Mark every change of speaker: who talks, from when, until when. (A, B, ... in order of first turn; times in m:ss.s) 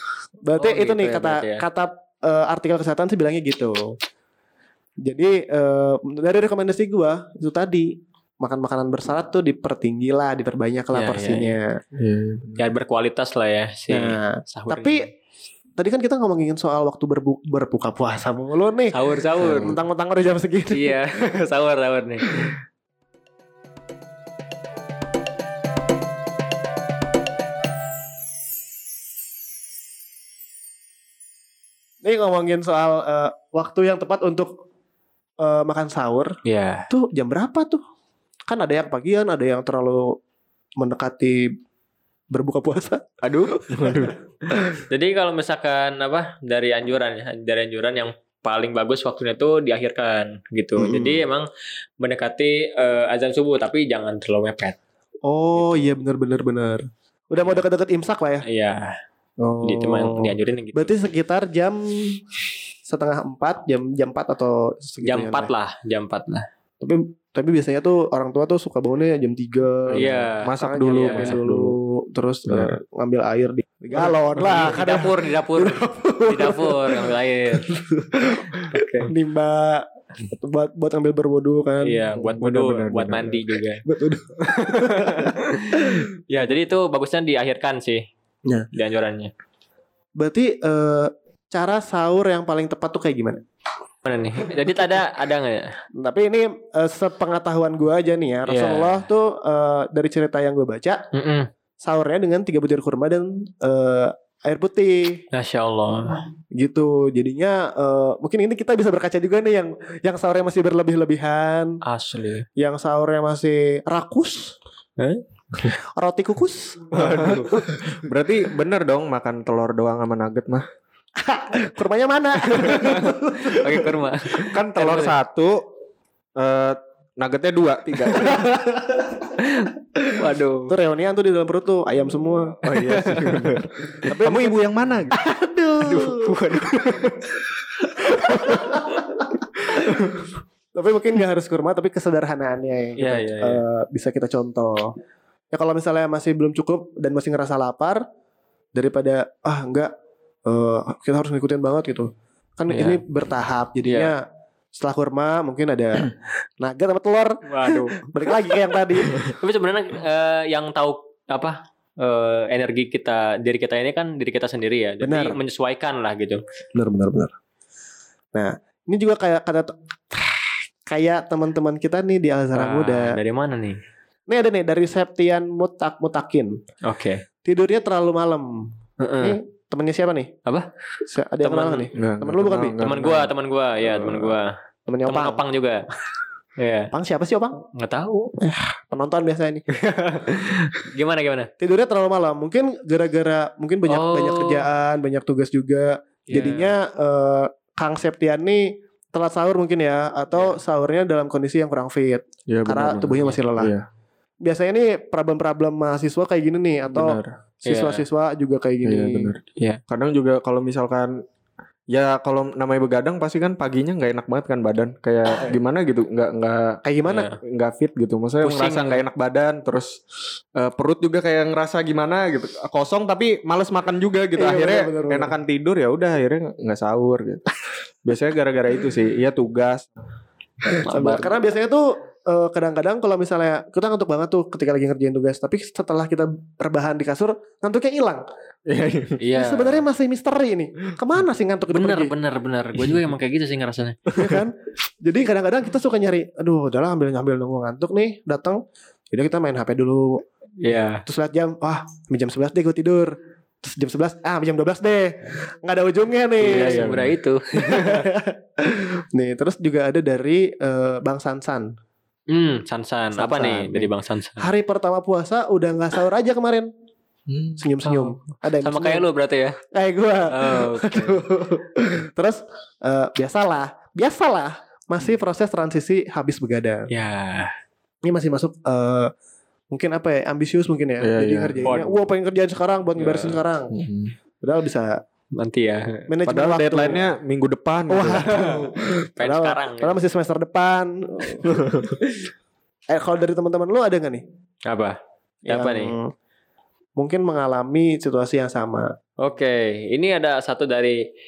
0:00.4-0:04.0 A
0:00.6-0:01.6 B
0:05.0-0:11.8 A
0:10.9-0:11.6 B
0:12.0-0:12.6 C
0:12.6-0:15.1 B
0:13.9-0:15.0 A
0:15.8-0:21.0 A
0:18.9-0:19.8 B
0:19.4-0:19.7 C
0:20.7-0:22.5 B
0:32.0-0:34.5 A
0:35.4-0:36.4 A
0:36.4-0:36.9 B
0:36.9-0:37.8 A
0:38.5-0:40.2 A
0:40.8-0:41.5 A
0:42.3-0:44.8 A
0:43.2-0:44.0 B
0:43.7-0:44.1 C
0:44.9-0:51.5 B
0:50.8-0:51.2 A
0:52.0-0:54.8 B
0:55.2-0:58.4 A
0:55.6-0:55.9 B
0:58.4-0:59.0 B
0:59.4-1:00.0 A
0:59.6-1:01.0 B
1:00.8-1:02.2 A
1:02.9-1:05.5 A
1:05.0-1:06.5 B
1:06.8-1:22.0 A
1:09.9-1:11.8 C
1:09.9-1:11.4 B
1:12.5-1:12.8 C
1:14.0-1:17.7 B
1:18.7-1:19.1 B
1:21.8-1:23.8 B
1:22.2-1:23.4 C
1:23.8-1:26.0 A
1:24.4-1:28.0 B
1:28.7-1:29.3 B
1:30.2-1:33.4 A
1:34.0-1:35.7 B
1:36.0-1:41.0 A
1:38.5-1:39.1 B
1:41.1-1:41.5 B
1:41.8-1:45.2 A
1:45.3-1:46.2 B
1:46.5-1:51.8 A
1:51.8-1:52.4 B
1:52.6-1:54.6 A
1:55.7-1:58.0 A
1:56.9-2:00.7 C
1:57.0-1:57.5 B
2:01.2-2:03.9 A
2:02.6-2:05.2 B
2:04.4-2:05.6 C
2:06.4-2:08.5 C
2:08.2-2:09.2 A
2:09.3-2:10.7 B
2:10.7-2:12.6 A
2:12.6-2:15.2 C
2:12.7-2:13.8 B
2:14.0-2:16.4 A
2:15.8-2:17.2 B
2:18.0-2:24.9 A
2:18.1-2:19.0 B
2:23.0-2:23.6 B
2:25.5-2:28.0 A
2:28.8-2:29.9 A
2:30.5-2:34.2 A
2:32.7-2:33.0 B
2:33.9-2:34.1 B
2:34.7-2:39.3 A
2:37.5-2:38.0 B
2:39.1-2:46.4 B
2:45.0-2:45.4 A
2:46.8-2:47.3 A
2:48.3-2:53.2 A
2:52.5-2:53.8 B
2:54.3-2:56.6 A
2:56.8-2:57.2 B
2:57.4-2:58.7 A
2:59.0-2:59.4 B
2:59.2-3:00.3 A
3:01.1-3:02.9 A
3:01.4-3:01.9 B
3:01.9-3:03.3 C
3:02.8-3:04.5 B
3:03.9-3:04.3 A
3:04.9-3:05.4 A
3:05.1-3:05.8 B
3:06.6-3:06.9 B
3:06.9-3:07.6 A
3:07.7-3:08.3 B
3:08.4-3:09.6 A
3:09.7-3:11.5 B
3:11.6-3:23.7 A
3:13.9-3:14.6 B
3:16.3-3:16.7 B
3:20.3-3:20.6 B
3:22.5-3:23.9 C
3:24.4-3:29.3 A
3:26.9-3:27.3 C
3:27.7-3:28.0 B
3:28.8-3:31.2 C
3:31.9-3:36.8 C
3:36.8-3:37.3 A
3:37.0-3:37.4 B
3:37.4-3:40.0 C
3:38.4-3:39.0 B
3:40.6-3:47.4 C
3:44.4-3:45.3 A
3:48.0-3:49.9 C
3:50.7-3:58.2 A
3:50.8-3:51.3 B
3:58.7-3:59.2 C
3:59.2-3:59.8 B
3:59.3-4:02.1 A
4:01.7-4:04.0 B
4:04.1-4:04.4 C
4:04.1-4:08.6 A
4:09.1-4:10.2 A
4:10.6-4:11.0 B
4:11.1-4:16.9 A
4:16.4-4:18.1 B
4:16.4-4:17.1 C
4:17.6-4:21.7 A
4:22.3-4:24.5 B
4:23.2-4:26.7 A
4:27.3-4:27.6 C
4:27.6-4:29.0 A
4:27.8-4:29.6 B
4:29.7-4:36.9 A
4:30.3-4:31.2 B
4:36.9-4:37.5 B
4:38.0-4:39.1 A
4:39.7-4:43.8 A
4:41.0-4:41.8 C
4:41.6-4:42.0 B
4:43.0-4:43.4 B
4:43.7-4:44.1 C
4:44.4-4:45.0 A
4:45.4-4:46.1 B
4:46.1-4:47.1 A
4:46.3-4:48.5 C
4:47.9-4:52.0 A
4:48.3-4:48.6 B
4:49.2-4:50.0 B
4:52.9-4:54.2 A
4:54.7-4:55.0 B
4:55.5-4:56.1 A
4:55.5-4:55.9 B
4:57.0-4:58.9 A
4:59.2-5:01.0 B